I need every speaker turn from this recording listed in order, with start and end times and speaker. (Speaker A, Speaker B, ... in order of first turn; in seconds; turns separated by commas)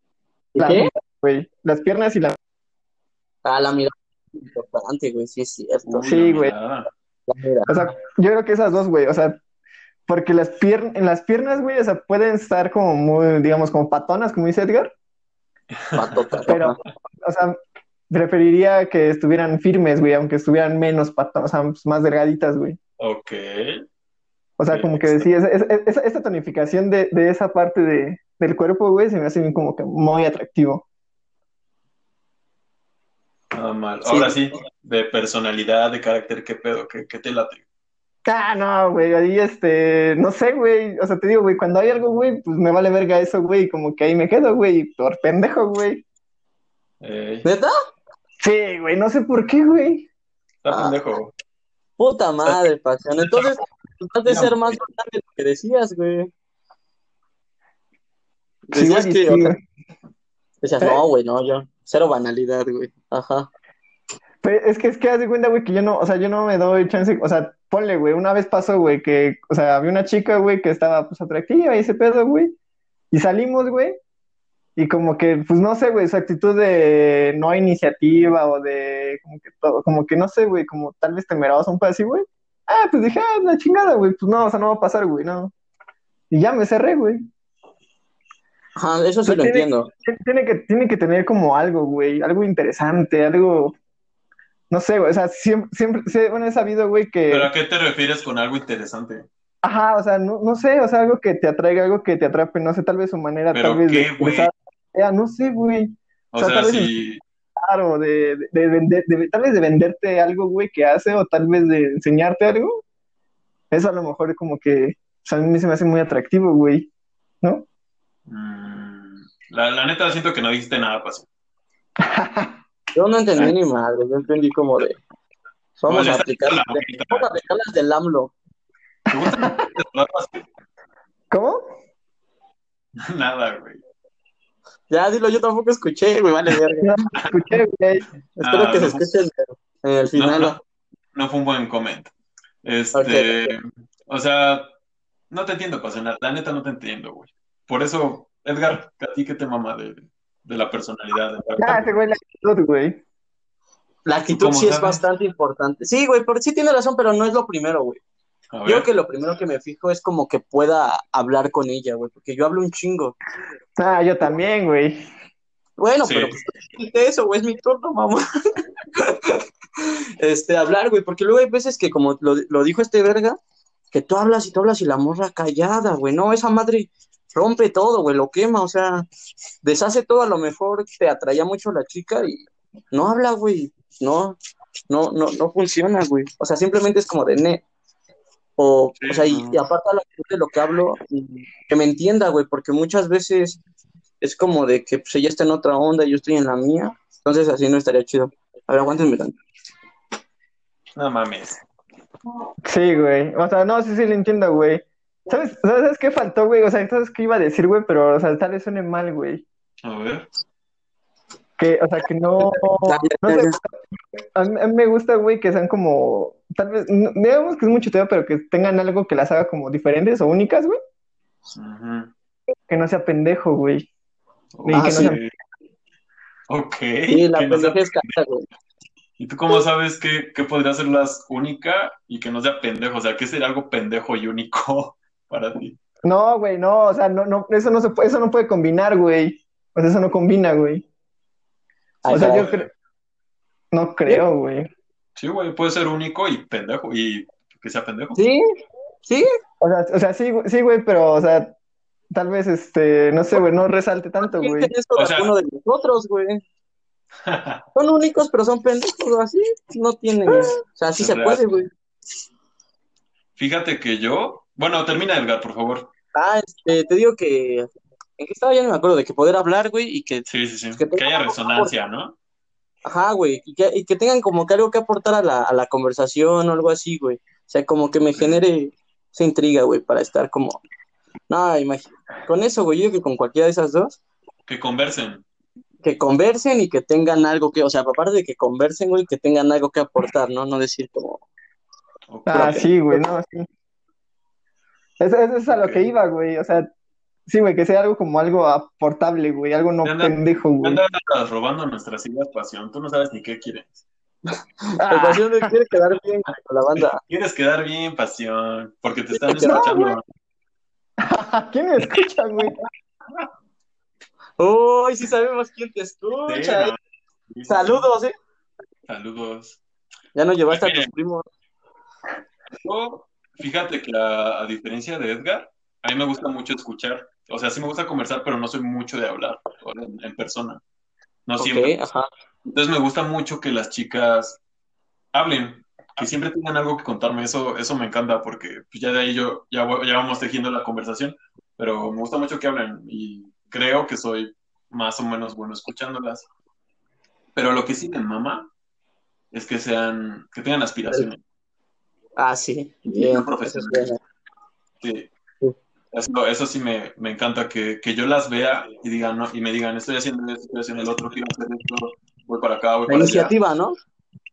Speaker A: 0.5-0.9, Speaker B: 0.6-2.4, Speaker A: 3.4-6.2, Speaker C: 5.8-6.9, Speaker B: 6.1-6.5, Speaker A: 7.3-7.7, Speaker B: 7.7-9.4, Speaker B: 10.1-14.9, Speaker C: 15.7-16.4, Speaker A: 15.9-16.8, Speaker B: 16.5-17.6, Speaker B: 18.1-22.8, Speaker C: 23.0-23.8, Speaker B: 24.6-30.8, Speaker C: 24.7-25.3, Speaker C: 33.5-37.6, Speaker A: 34.1-34.4, Speaker B: 38.3-46.0, Speaker C: 47.0-47.5, Speaker A: 47.4-47.7, Speaker B: 48.4-50.1, Speaker C: 50.6-51.3, Speaker A: 50.7-50.9, Speaker A: 52.0-56.3, Speaker C: 54.2-54.8, Speaker A: 58.7-59.5, Speaker B: 58.7-59.6, Speaker A: 60.6-63.5, Speaker B: 64.4-72.5, Speaker B: 73.1-74.0, Speaker B: 74.8-85.5, Speaker B: 86.3-87.2, Speaker A: 88.8-89.9, Speaker B: 89.2-93.8, Speaker B: 94.7-97.5, Speaker C: 97.3-99.2, Speaker B: 99.6-106.9, Speaker C: 103.5-104.5, Speaker C: 106.3-107.2, Speaker B: 107.6-112.7, Speaker B: 113.7-116.9, Speaker B: 117.4-117.7, Speaker C: 118.3-121.3, Speaker B: 122.0-122.5, Speaker A: 122.9-125.0, Speaker A: 125.8-128.3, Speaker C: 125.9-127.3, Speaker B: 129.1-129.5, Speaker C: 129.1-130.4, Speaker B: 131.3-131.8, Speaker C: 133.0-133.8, Speaker A: 134.9-136.9, Speaker B: 136.8-138.0, Speaker A: 138.4-140.6, Speaker C: 138.4-139.2, Speaker C: 140.1-140.6, Speaker C: 141.1-142.1, Speaker C: 142.6-144.7, Speaker A: 142.9-143.5, Speaker C: 145.3-151.9, Speaker B: 151.6-153.0, Speaker A: 154.0-158.0, Speaker C: 154.3-155.0, Speaker C: 158.5-158.9, Speaker A: 158.7-163.2, Speaker B: 163.8-165.0, Speaker A: 165.8-168.2, Speaker C: 166.0-166.3, Speaker A: 168.9-173.4, Speaker A: 173.9-179.1, Speaker A: 179.6-184.4, Speaker A: 184.9-187.6, Speaker A: 188.6-193.6, Speaker C: 189.0-189.6, Speaker A: 194.2-199.4, Speaker C: 200.9-201.6, Speaker B: 202.6-209.4, Speaker C: 209.8-210.2, Speaker B: 211.6-220.8, Speaker A: 212.8-213.6, Speaker C: 221.5-222.1, Speaker B: 222.7-223.9, Speaker C: 224.5-225.3, Speaker B: 224.6-225.2, Speaker A: 224.7-225.2, Speaker C: 226.5-228.1, Speaker A: 227.1-228.4, Speaker C: 229.2-235.8, Speaker B: 236.0-240.8, Speaker A: 242.0-242.5, Speaker C: 242.0-242.7, Speaker B: 242.1-242.7, Speaker B: 243.7-244.7, Speaker C: 245.2-248.2, Speaker B: 249.6-251.5, Speaker B: 252.1-254.7, Speaker A: 254.2-256.4, Speaker C: 254.9-255.3, Speaker C: 257.2-257.6, Speaker A: 257.7-261.7, Speaker C: 260.9-261.5, Speaker C: 263.4-265.9, Speaker A: 266.1-270.2, Speaker C: 270.3-272.1, Speaker A: 270.8-271.7, Speaker A: 272.9-280.6, Speaker A: 281.3-284.0, Speaker C: 284.5-285.2, Speaker A: 285.8-291.2, Speaker C: 292.1-292.7, Speaker B: 292.3-293.5, Speaker A: 292.4-292.6, Speaker B: 295.0-296.7, Speaker C: 295.5-295.9, Speaker B: 297.3-300.8, Speaker C: 299.8-303.8, Speaker A: 304.6-307.0, Speaker B: 304.8-305.5, Speaker C: 307.1-310.0, Speaker A: 309.1-309.6, Speaker B: 309.4-310.0, Speaker B: 311.0-312.6, Speaker A: 314.4-316.7, Speaker C: 316.3-316.8, Speaker C: 317.3-317.9, Speaker A: 317.5-318.1, Speaker C: 318.9-319.6, Speaker A: 320.1-321.2, Speaker C: 320.5-320.9, Speaker C: 322.6-330.6, Speaker C: 331.3-331.7, Speaker A: 331.4-332.1, Speaker C: 332.5-334.4, Speaker C: 335.1-346.3, Speaker C: 347.3-348.5, Speaker C: 349.3-351.2, Speaker A: 352.2-354.0, Speaker C: 352.9-353.9, Speaker C: 354.8-355.1, Speaker C: 355.9-363.3, Speaker A: 362.9-363.8